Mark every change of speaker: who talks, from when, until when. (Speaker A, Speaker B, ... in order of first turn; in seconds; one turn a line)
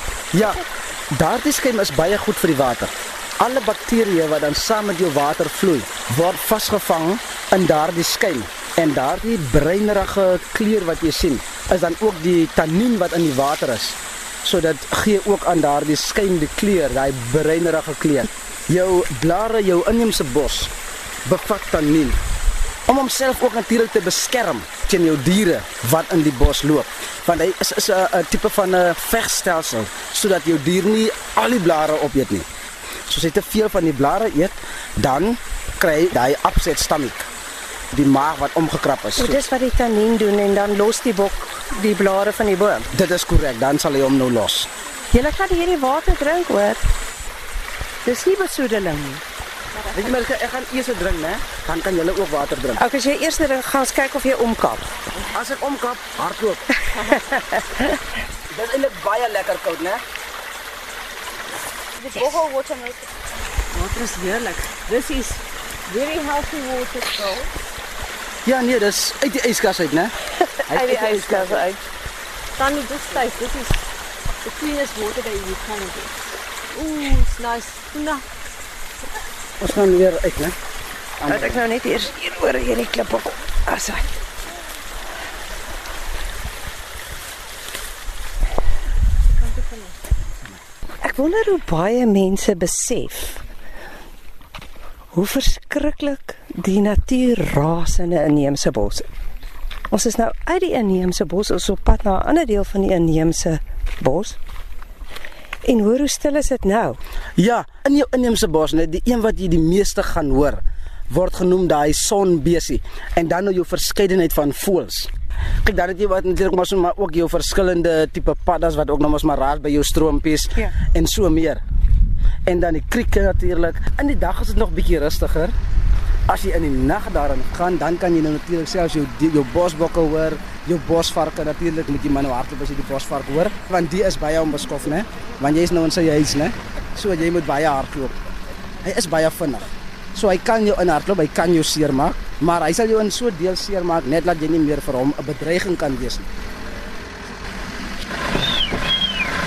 Speaker A: 0.3-20.7
Speaker B: 0.4-0.6
Speaker A: 21.2-22.2
Speaker A: 22.9-32.5
Speaker A: 33.1-37.3
Speaker A: 37.9-39.4
Speaker B: 39.2-42.9
Speaker A: 42.9-44.7
Speaker B: 45.1-46.8
Speaker B: 48.0-49.2
Speaker A: 49.9-52.8
Speaker B: 52.8-54.9
Speaker A: 55.3-56.7
Speaker B: 57.0-58.0
Speaker A: 58.5-60.0
Speaker C: 62.0-63.1
Speaker C: 63.7-67.5
Speaker A: 68.4-70.1
Speaker B: 70.4-71.8
Speaker A: 70.7-71.6
Speaker C: 72.6-73.8
Speaker C: 74.4-76.1
Speaker C: 76.7-78.2
Speaker A: 79.6-80.6
Speaker A: 81.2-81.6
Speaker B: 81.3-84.2
Speaker C: 89.3-89.9
Speaker B: 91.0-93.4
Speaker B: 95.1-99.1
Speaker B: 99.9-104.4
Speaker B: 105.6-107.0
Speaker A: 107.4-115.1
Speaker A: 115.6-121.6
Speaker A: 122.5-125.5
Speaker A: 126.3-138.2
Speaker A: 138.8-146.3